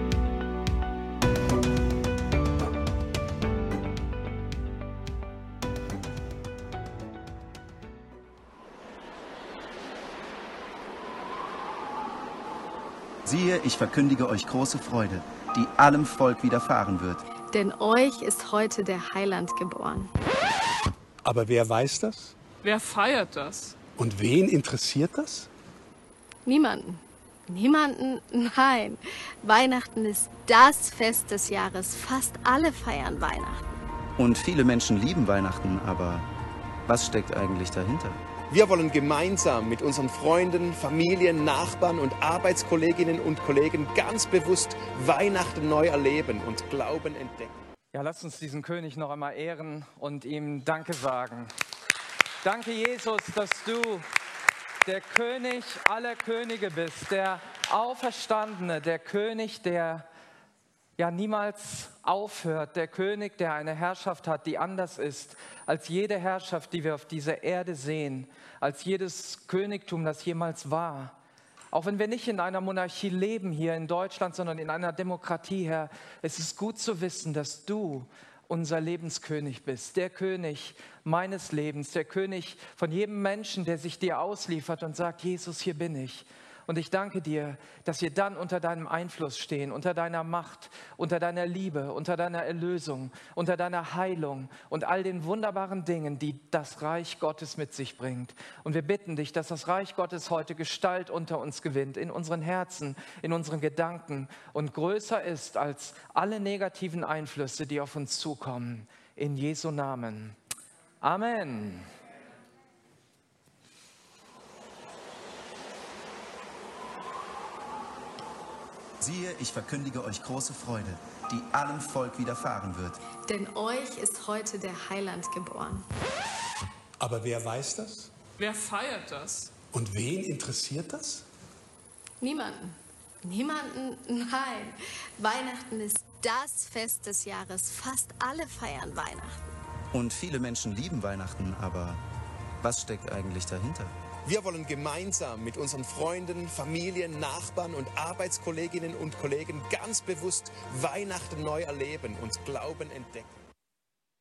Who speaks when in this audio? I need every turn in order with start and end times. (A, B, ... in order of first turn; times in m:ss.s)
0:13.2-0:17.2 A
0:17.5-0:20.1 B
0:21.2-0:22.4 C
0:22.6-0:23.8 D
0:24.0-0:25.5 C
0:26.5-0:33.6 B
0:34.2-0:36.3 A
0:36.9-0:38.2 A
0:38.5-0:47.6 E
0:47.9-0:51.5 F
0:52.4-0:54.1 F
0:54.8-1:00.1 F
1:01.0-1:11.2 F
1:11.7-1:50.4 F
1:51.0-1:51.9 F
1:59.0-2:03.0 A
2:03.3-2:05.9 B
2:07.0-2:08.1 C
2:08.4-2:09.5 D
2:09.7-2:11.2 C
2:12.2-2:19.4 B
2:19.9-2:22.0 A
2:22.6-2:24.0 A
2:24.2-2:33.3 E